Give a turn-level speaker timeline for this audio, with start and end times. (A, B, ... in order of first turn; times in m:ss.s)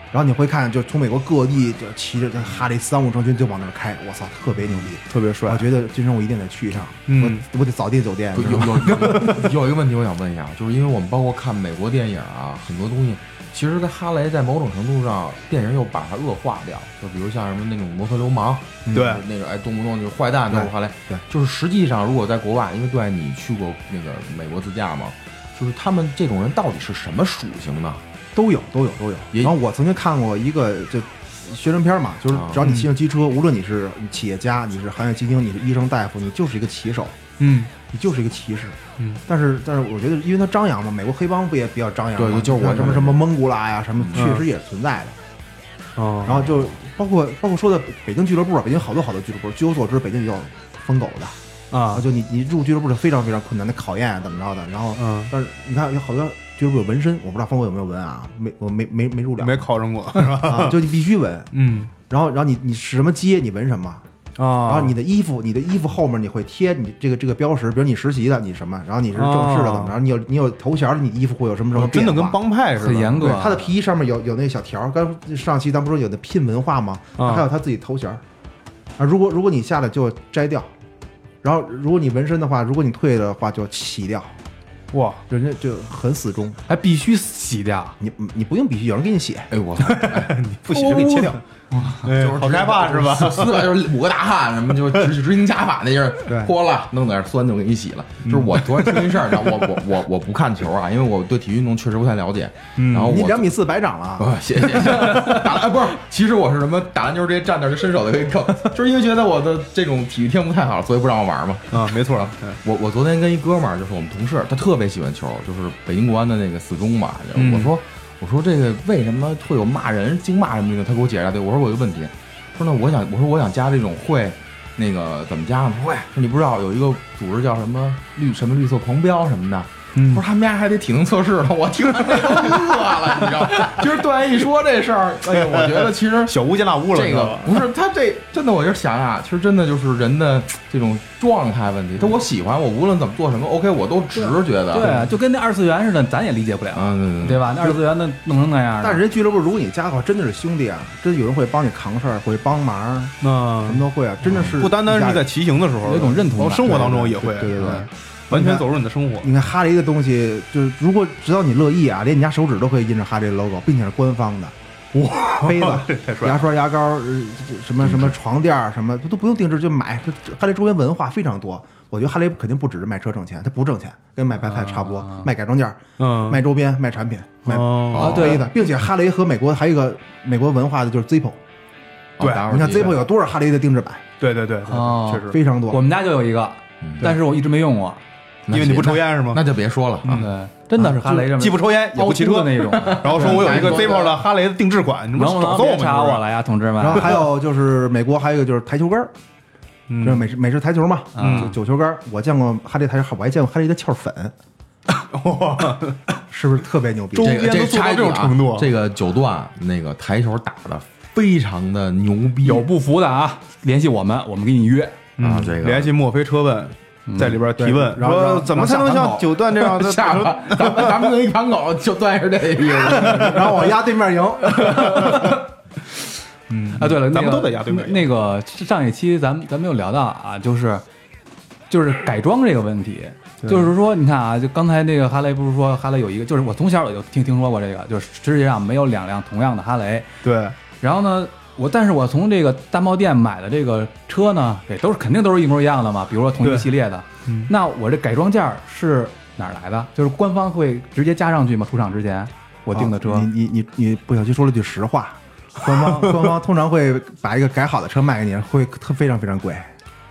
0:00.1-0:09.3 A
0:05.1-0:05.6 B
0:07.1-0:07.4 B
0:08.4-0:28.0 C
0:08.8-0:09.4 B
0:18.9-0:19.2 A
0:18.9-0:19.2 B
0:20.5-0:21.2 A
0:28.4-0:37.2 A
0:32.3-0:32.7 C
0:32.6-0:32.9 B
0:37.4-0:37.7 B
0:37.8-0:45.2 A
0:42.2-0:43.2 C
0:44.0-0:44.3 C
0:44.1-0:44.4 B
0:46.0-0:46.4 B
0:46.2-0:51.4 A
0:46.3-0:46.7 C
0:51.7-0:52.0 B
0:51.9-0:59.7 A
0:55.0-0:55.3 B
0:59.4-1:00.8 B
1:00.4-1:04.0 A
1:01.5-1:01.9 B
1:04.4-1:05.0 B
1:04.6-1:12.4 A
1:09.1-1:10.0 B
1:11.8-1:13.5 B
1:12.8-1:13.6 D
1:13.2-1:18.2 A
1:17.2-1:17.5 B
1:19.0-1:20.7 A
1:21.4-1:24.4 A
1:24.9-1:25.2 B
1:25.3-1:26.6 A
1:26.7-1:28.0 D
1:28.0-1:29.5 A
1:29.5-1:31.0 C
1:29.9-1:31.4 B
1:30.7-1:31.4 A
1:31.7-1:32.0 D
1:32.0-1:33.7 B
1:32.1-1:43.5 C
1:36.3-1:36.5 A
1:38.3-1:39.1 B
1:42.8-1:43.2 B
1:43.0-1:44.3 A
1:44.2-2:25.1 C
1:51.7-1:52.6 B
1:57.4-1:57.7 B
2:10.0-2:10.2 B
2:15.5-2:17.6 B
2:24.2-2:29.0 D
2:26.7-2:27.6 C
2:28.8-2:35.3 A
2:33.2-2:33.9 B
2:34.4-2:39.3 B
2:35.8-2:37.2 D
2:36.6-2:38.7 A
2:39.2-2:44.6 A
2:44.9-2:46.4 B
2:45.4-3:01.4 A
2:47.9-2:48.1 C
2:54.5-2:55.3 D
2:56.0-2:56.4 B
2:57.5-2:58.4 B
2:57.9-2:58.4 C
2:58.0-2:58.4 D
3:02.2-3:03.1 C
3:02.2-3:02.5 B
3:02.4-3:04.1 A
3:04.2-3:05.4 B
3:04.7-3:08.0 D
3:05.3-3:05.8 A
3:06.8-3:07.2 C
3:08.5-3:10.3 C
3:08.5-3:09.4 B
3:10.0-3:10.3 B
3:10.2-3:13.9 D
3:11.0-3:16.2 B
3:12.6-3:14.2 C
3:15.1-3:17.2 D
3:16.8-3:19.1 A
3:19.9-3:20.2 B
3:20.0-3:24.4 A
3:21.2-3:21.6 D
3:21.2-3:21.5 B
3:24.9-3:26.0 B
3:26.3-3:27.4 A
3:27.2-3:32.7 C
3:27.2-3:28.7 B
3:32.4-3:35.0 D
3:35.2-3:41.0 B
3:35.2-3:36.0 C
3:37.1-3:37.4 D
3:37.6-3:39.4 A
3:39.6-3:43.7 C
3:43.0-3:43.3 B
3:43.0-3:45.2 A
3:44.6-3:45.4 D
3:45.0-3:45.3 B
3:46.5-3:48.1 B
3:46.8-3:50.8 D
3:51.7-4:00.1 D
3:53.4-3:53.7 B
4:00.2-4:00.6 B
4:00.8-4:13.3 D
4:06.4-4:06.7 B
4:07.3-4:07.5 B
4:12.7-4:19.7 A
4:15.8-4:16.2 B